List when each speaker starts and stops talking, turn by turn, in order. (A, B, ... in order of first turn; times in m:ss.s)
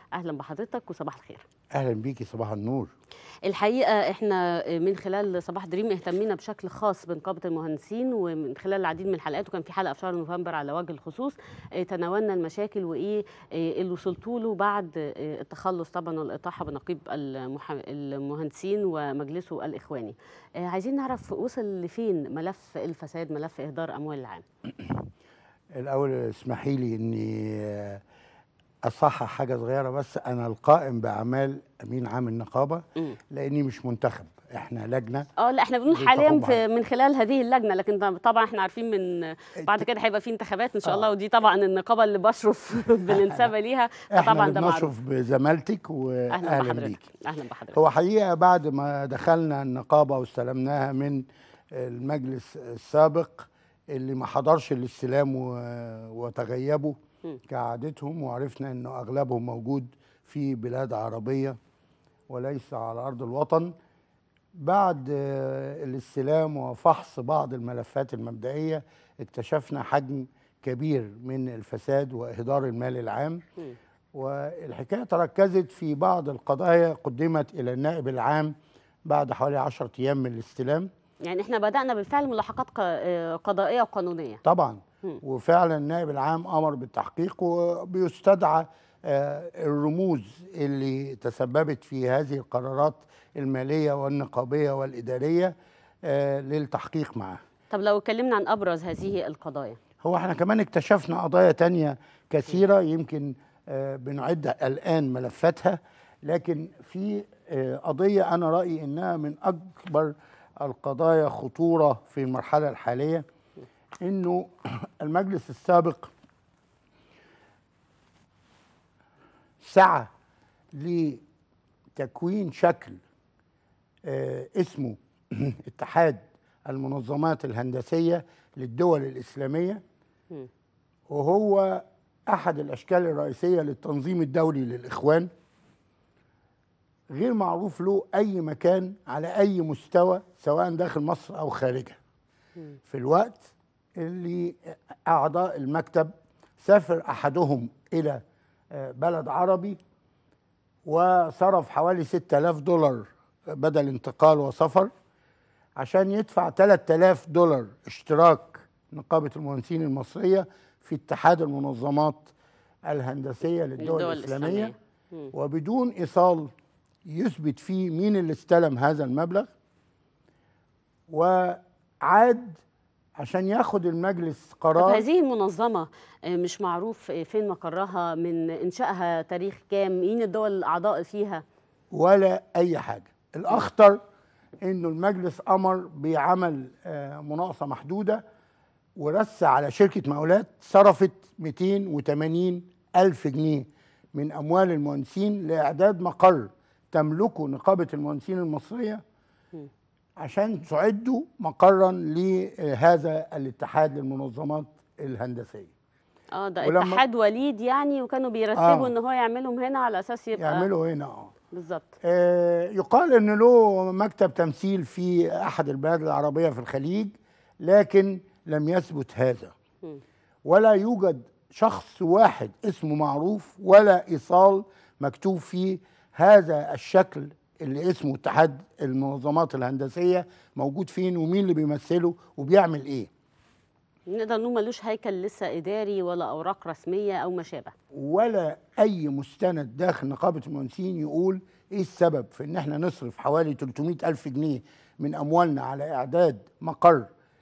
0:00.2-0:01.4 A
0:01.7-0:02.9 B
0:03.4-0:24.4 A
0:25.8-0:28.0 B
0:28.9-0:35.3 B
0:35.4-0:44.9 A
0:35.9-0:36.6 B
0:39.6-0:39.9 B
0:43.1-0:43.5 B
0:44.1-0:47.1 B
0:46.3-0:47.8 A
0:47.7-0:51.2 B
0:51.7-0:57.0 B
0:57.5-1:01.6 B
1:02.3-1:03.7 B
1:04.6-1:13.4 B
1:14.2-1:18.5 B
1:19.1-1:20.9 B
1:21.2-1:24.4 A
1:24.4-1:35.5 B
1:36.1-1:37.4 B
1:37.7-1:39.8 A
1:40.0-1:53.2 B
1:54.0-1:56.1 B
1:59.6-2:00.1 B
2:00.8-2:01.2 B
2:02.0-2:03.0 B
2:04.1-2:09.8 B
2:11.1-2:15.3 B
2:17.1-2:22.0 B
2:22.9-2:28.2 B
2:28.8-2:29.8 B
2:30.8-2:34.9 B
2:35.8-2:42.3 B
2:42.9-2:44.7 B
2:43.8-2:45.3 A
2:45.3-2:46.5 B
2:47.1-2:49.5 B
2:51.1-2:52.6 B
2:53.2-2:55.0 B
2:54.8-3:01.4 A
3:01.9-3:04.0 B
3:04.6-3:08.2 B
3:09.0-3:19.0 B
3:20.2-3:25.7 B
3:26.3-3:30.7 A
3:26.6-3:27.0 B
3:28.6-3:28.9 B
3:30.4-3:31.3 B
3:31.5-3:31.9 A
3:32.0-3:39.5 B
3:40.5-3:53.1 B
3:54.1-3:57.7 A
3:58.0-4:07.1 B